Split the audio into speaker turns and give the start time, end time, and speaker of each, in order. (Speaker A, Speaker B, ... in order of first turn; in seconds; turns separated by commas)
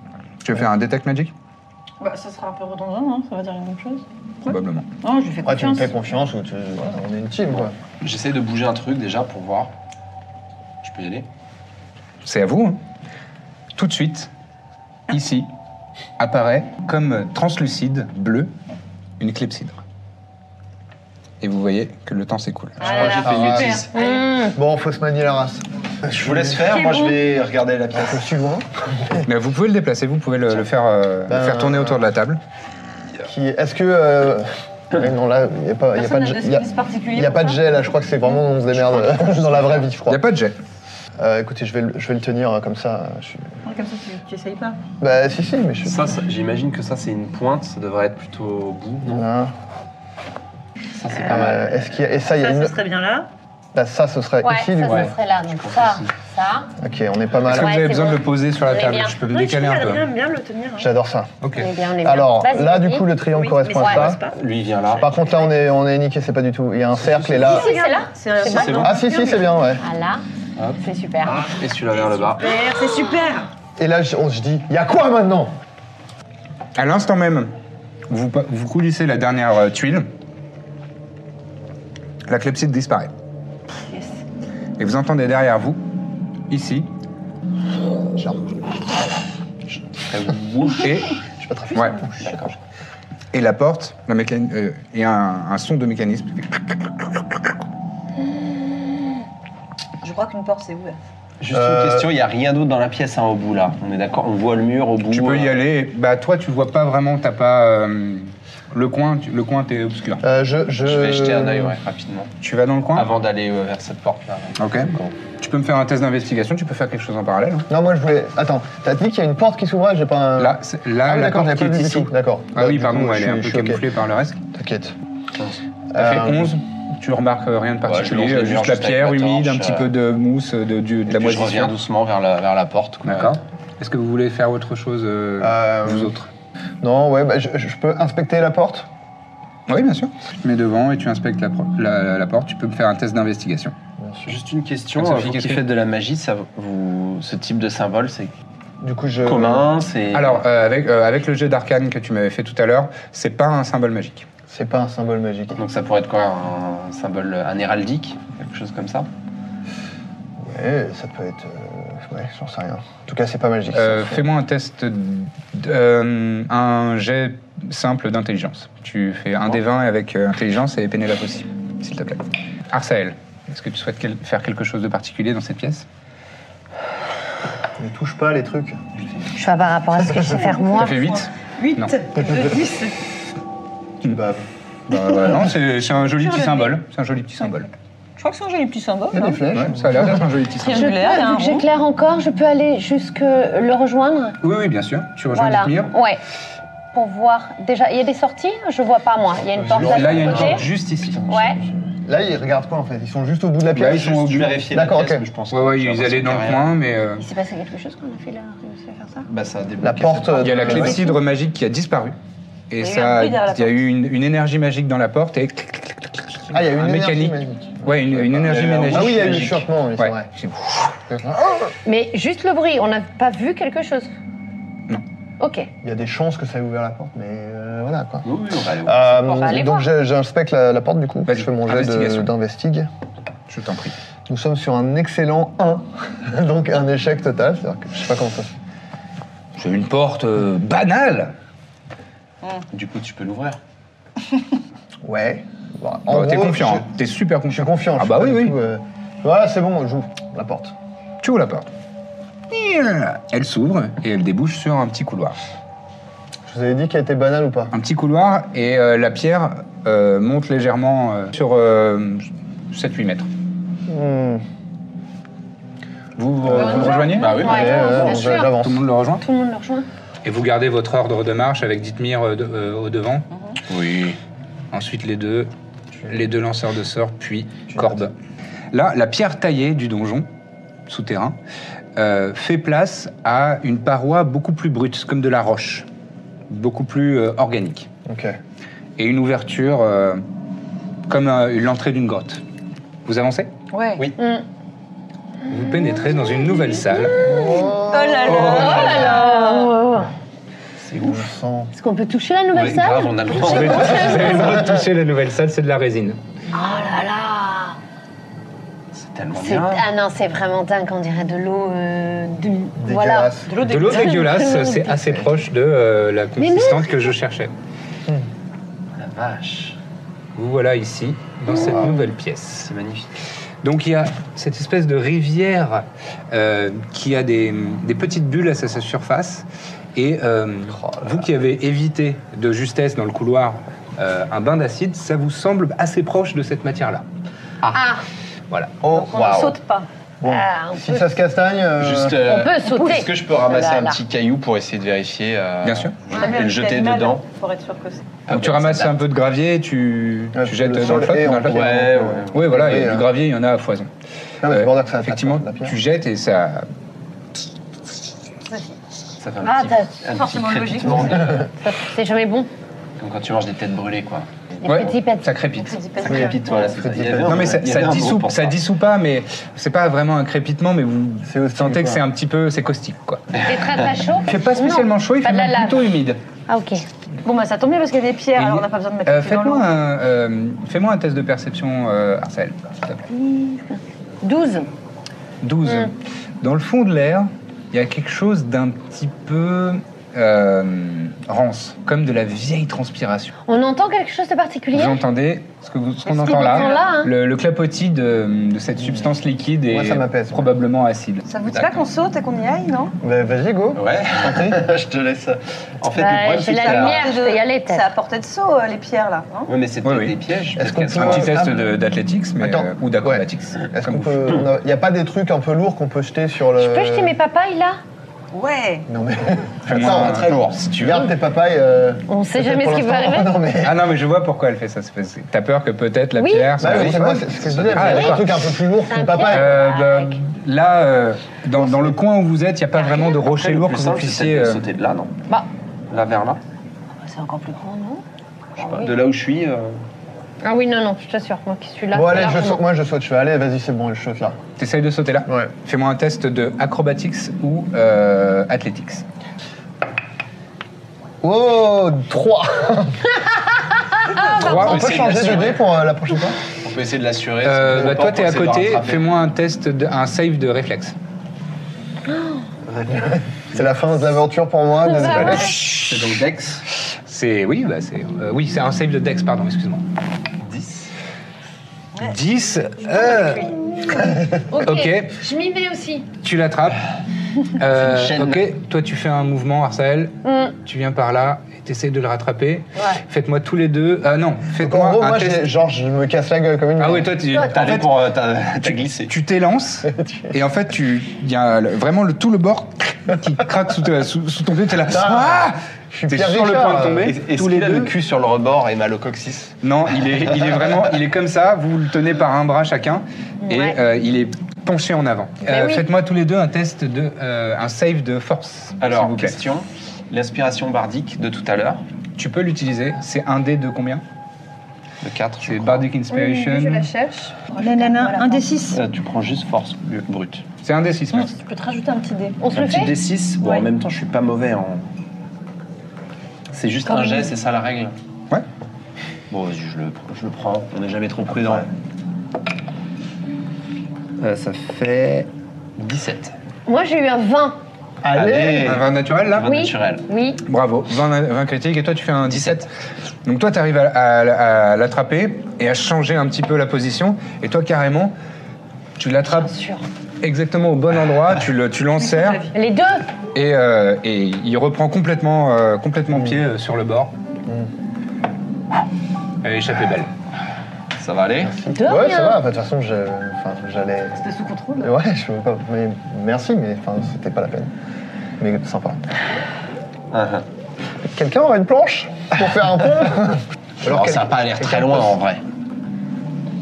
Speaker A: 0.4-1.3, Speaker B: 2.0-5.9, Speaker A: 4.5-4.9, Speaker C: 5.4-7.7, Speaker D: 7.6-9.7, Speaker D: 10.8-11.3, Speaker A: 12.2-12.8, Speaker A: 13.8-14.3, Speaker A: 15.1-15.5, Speaker A: 16.2-18.5, Speaker A: 19.2-19.8, Speaker A: 21.4-23.0, Speaker D: 22.8-23.9, Speaker B: 22.8-24.3, Speaker C: 22.9-23.8, Speaker E: 23.9-24.6, Speaker C: 24.5-26.6, Speaker D: 26.1-28.2, Speaker B: 26.8-27.2, Speaker C: 27.9-29.2, Speaker A: 29.2-32.4, Speaker C: 31.3-32.0, Speaker C: 33.2-40.2, Speaker B: 35.9-37.7, Speaker A: 40.1-40.5, Speaker C: 41.2-43.5, Speaker B: 43.6-44.8, Speaker C: 45.0-46.1, Speaker D: 45.8-49.3, Speaker C: 49.1-49.5, Speaker D: 51.0-51.8, Speaker B: 51.1-51.5, Speaker C: 51.2-52.8, Speaker B: 52.2-53.3, Speaker C: 53.7-55.1, Speaker E: 54.4-56.7, Speaker D: 54.8-56.1, Speaker C: 56.8-57.7, Speaker A: 57.5-60.0, Speaker E: 57.5-59.2, Speaker B: 59.2-60.9, Speaker C: 60.8-61.4, Speaker A: 61.4-61.7, Speaker E: 61.5-63.1, Speaker C: 62.0-64.2, Speaker B: 63.3-64.4, Speaker D: 63.8-65.2, Speaker C: 65.0-67.7, Speaker D: 67.0-67.5, Speaker B: 67.4-69.6, Speaker E: 67.5-68.9, Speaker D: 68.5-68.9, Speaker C: 68.8-69.8, Speaker E: 69.8-70.2, Speaker D: 70.6-72.5, Speaker E: 70.8-71.5, Speaker B: 72.4-73.5, Speaker C: 73.8-75.5, Speaker A: 76.8-77.5, Speaker A: 78.1-80.1, Speaker A: 82.3-83.1, Speaker A: 84.8-85.8, Speaker A: 86.5-86.9, Speaker D: 89.7-90.9, Speaker A: 90.8-91.2, Speaker C: 91.4-92.5, Speaker A: 91.7-92.0, Speaker D: 92.2-92.5, Speaker A: 93.3-97.4, Speaker B: 100.0-101.0, Speaker D: 101.4-105.5, Speaker C: 101.5-102.1, Speaker A: 105.1-110.2, Speaker C: 110.2-111.8, Speaker D: 110.8-112.3, Speaker A: 112.4-113.1, Speaker D: 112.9-115.0, Speaker A: 114.6-117.7, Speaker C: 117.7-123.8, Speaker A: 120.4-124.4, Speaker C: 124.5-125.0, Speaker C: 125.9-126.6, Speaker A: 125.9-131.7, Speaker D: 127.8-129.9, Speaker D: 131.1-133.4, Speaker A: 133.0-136.3, Speaker C: 135.4-136.1, Speaker C: 136.8-138.9, Speaker A: 139.7-143.7, Speaker C: 144.0-144.4, Speaker D: 144.3-148.3, Speaker A: 145.0-145.6, Speaker C: 148.8-149.7, Speaker D: 149.2-150.4, Speaker A: 150.1-154.2, Speaker C: 154.5-155.6, Speaker D: 155.6-159.1, Speaker C: 160.4-164.2, Speaker A: 163.7-175.8, Speaker C: 177.8-178.8, Speaker E: 179.3-181.0, Speaker C: 180.0-180.4, Speaker B: 180.4-183.1, Speaker A: 180.8-181.9, Speaker C: 184.0-184.4, Speaker A: 184.9-187.7, Speaker B: 186.2-186.8, Speaker B: 187.4-189.4, Speaker C: 189.1-190.3, Speaker A: 189.5-191.0, Speaker B: 190.6-191.7, Speaker E: 190.7-194.4, Speaker A: 194.4-195.9, Speaker E: 195.3-196.2, Speaker E: 196.9-200.6, Speaker D: 199.6-201.7, Speaker A: 199.8-201.2, Speaker E: 201.3-201.6, Speaker C: 202.0-204.1, Speaker A: 203.7-204.6, Speaker D: 203.8-206.7, Speaker C: 204.7-205.2, Speaker A: 205.5-207.2, Speaker E: 207.2-209.2, Speaker D: 209.3-210.8, Speaker C: 209.8-211.0, Speaker A: 210.4-212.1, Speaker E: 210.6-211.2, Speaker A: 212.7-221.0, Speaker B: 212.8-213.8, Speaker C: 216.5-220.3, Speaker D: 218.3-219.6, Speaker C: 221.1-221.7, Speaker E: 221.8-224.1, Speaker E: 225.4-225.7, Speaker C: 225.8-228.3, Speaker D: 228.2-229.6, Speaker C: 228.8-232.9, Speaker E: 229.3-229.9, Speaker A: 231.3-232.3, Speaker A: 233.5-233.9, Speaker C: 234.3-238.5, Speaker A: 239.6-241.3, Speaker D: 242.7-243.6, Speaker C: 245.0-246.9, Speaker A: 246.1-248.5, Speaker C: 247.5-250.7, Speaker A: 251.2-251.7, Speaker A: 252.5-255.3, Speaker C: 256.4-257.7, Speaker A: 257.7-263.3, Speaker C: 263.9-264.4, Speaker A: 266.2-267.5, Speaker C: 266.4-268.9, Speaker E: 266.6-268.5, Speaker B: 266.7-267.2, Speaker D: 267.1-268.1, Speaker A: 268.4-269.2, Speaker E: 269.2-269.9, Speaker A: 270.2-273.2, Speaker D: 273.7-274.2, Speaker A: 274.7-275.5, Speaker A: 276.1-278.1, Speaker C: 277.7-278.1, Speaker A: 278.7-280.3, Speaker A: 280.9-281.4, Speaker A: 281.9-285.9, Speaker A: 286.5-287.9, Speaker C: 288.1-288.4, Speaker A: 289.0-290.2, Speaker A: 291.1-292.4, Speaker A: 293.1-293.5, Speaker B: 293.7-294.1, Speaker E: 294.2-294.4, Speaker A: 295.5-297.2, Speaker E: 296.7-297.6, Speaker C: 297.2-299.1, Speaker B: 297.9-299.7, Speaker D: 298.3-298.7, Speaker E: 298.5-300.1, Speaker D: 300.8-301.3, Speaker C: 301.0-301.7, Speaker E: 301.7-304.6, Speaker D: 302.5-304.6, Speaker A: 303.3-306.2, Speaker E: 306.5-307.8, Speaker D: 308.9-309.8, Speaker E: 309.3-315.1, Speaker C: 312.8-313.5, Speaker B: 313.5-314.4, Speaker A: 313.6-317.5, Speaker E: 316.4-317.1, Speaker D: 319.0-319.8, Speaker A: 320.3-322.7, Speaker C: 321.6-321.9, Speaker D: 322.6-323.1, Speaker A: 323.6-337.0, Speaker C: 330.8-331.2, Speaker A: 337.6-337.9, Speaker E: 337.7-338.0, Speaker A: 338.5-338.8, Speaker C: 338.8-339.6, Speaker B: 338.9-339.9, Speaker C: 340.2-342.2, Speaker E: 340.3-341.1, Speaker D: 341.8-347.2, Speaker E: 342.2-344.0, Speaker A: 345.6-346.0, Speaker B: 346.1-348.2, Speaker D: 348.3-349.0, Speaker A: 348.3-353.9, Speaker C: 350.3-353.1, Speaker D: 351.4-352.6, Speaker C: 354.4-355.8, Speaker A: 354.5-356.7, Speaker B: 358.5-358.8, Speaker D: 359.2-361.4, Speaker E: 359.4-360.0, Speaker B: 360.1-361.3, Speaker C: 360.9-361.5, Speaker E: 361.6-362.5, Speaker D: 363.0-364.9, Speaker E: 364.6-365.3, Speaker A: 364.6-365.8, Speaker B: 365.5-366.7, Speaker D: 366.0-368.6, Speaker C: 366.1-367.6, Speaker A: 367.2-373.4, Speaker C: 371.2-372.0, Speaker E: 373.4-375.9, Speaker A: 374.2-376.2, Speaker E: 376.5-376.8, Speaker B: 377.2-379.8, Speaker A: 378.4-383.1, Speaker E: 383.3-383.6, Speaker E: 384.2-384.7, Speaker A: 385.4-393.3, Speaker E: 393.5-395.0, Speaker A: 394.7-401.2, Speaker B: 396.1-396.9, Speaker E: 396.2-397.1, Speaker C: 399.7-400.5, Speaker B: 401.2-402.9, Speaker D: 401.5-401.8, Speaker C: 403.0-404.7, Speaker D: 403.7-407.1, Speaker E: 405.9-407.9, Speaker B: 406.4-409.5, Speaker D: 409.5-411.6, Speaker A: 409.8-410.2, Speaker C: 410.6-411.7, Speaker A: 410.9-414.4, Speaker C: 412.4-417.1, Speaker E: 416.6-417.8, Speaker B: 418.3-418.9, Speaker C: 418.9-423.9, Speaker D: 419.6-421.0, Speaker A: 419.7-420.4, Speaker E: 422.1-423.4, Speaker A: 423.6-428.3, Speaker E: 426.2-426.7, Speaker C: 426.6-429.6, Speaker D: 426.7-428.1, Speaker E: 427.8-428.2, Speaker E: 428.9-430.2, Speaker A: 429.2-434.6, Speaker C: 431.6-432.0, Speaker E: 432.8-433.1, Speaker D: 433.2-435.1, Speaker D: 435.9-436.4, Speaker E: 437.0-438.0, Speaker E: 438.6-438.9, Speaker D: 438.6-439.8, Speaker E: 440.4-442.6, Speaker C: 441.9-444.4, Speaker A: 444.6-449.0, Speaker C: 445.3-445.5, Speaker C: 451.2-453.1, Speaker A: 454.3-455.3, Speaker D: 454.4-455.6, Speaker C: 454.4-456.4, Speaker D: 456.6-459.1, Speaker A: 457.4-460.9, Speaker E: 462.1-462.4, Speaker D: 462.6-463.6, Speaker C: 462.9-465.6, Speaker E: 464.8-465.6, Speaker A: 465.2-465.9, Speaker D: 465.4-466.6, Speaker A: 467.1-469.8, Speaker D: 470.4-470.9, Speaker A: 472.0-473.5, Speaker B: 472.8-473.5, Speaker E: 473.9-476.1, Speaker A: 474.6-475.1, Speaker A: 476.2-476.8, Speaker A: 477.6-485.5, Speaker D: 477.7-478.5, Speaker E: 480.2-480.5, Speaker E: 482.8-483.0, Speaker C: 484.6-487.2, Speaker A: 486.8-487.9, Speaker D: 487.3-489.1, Speaker A: 488.6-497.9, Speaker C: 490.0-490.3, Speaker C: 494.9-497.1, Speaker D: 497.0-499.5, Speaker A: 499.6-509.4, Speaker E: 503.4-503.8, Speaker E: 505.4-505.9, Speaker D: 508.8-511.8, Speaker A: 512.2-514.0, Speaker D: 515.0-515.9, Speaker A: 515.4-516.9, Speaker B: 516.1-518.8, Speaker E: 517.6-518.4, Speaker D: 518.7-520.4, Speaker A: 520.6-521.3, Speaker B: 521.1-522.4, Speaker E: 522.4-522.9, Speaker D: 522.5-524.8, Speaker B: 523.4-523.7, Speaker D: 526.5-527.9, Speaker B: 526.9-527.3, Speaker D: 529.3-531.7, Speaker D: 534.2-536.3, Speaker E: 536.6-537.6, Speaker C: 538.0-538.8, Speaker D: 538.1-540.0, Speaker A: 538.6-539.5, Speaker E: 539.4-540.4, Speaker A: 540.4-542.7, Speaker D: 542.2-542.6, Speaker A: 543.2-548.1, Speaker A: 549.0-549.5, Speaker E: 549.3-549.9, Speaker A: 550.2-552.5, Speaker B: 552.0-552.5, Speaker E: 552.5-553.1, Speaker A: 553.3-557.1, Speaker C: 556.1-556.4, Speaker A: 559.4-560.1, Speaker D: 561.0-561.5, Speaker C: 561.4-564.2, Speaker E: 561.7-562.4, Speaker B: 564.1-564.9, Speaker C: 564.8-567.7, Speaker C: 568.4-569.0, Speaker D: 570.1-570.4, Speaker C: 571.1-574.8, Speaker D: 573.8-575.4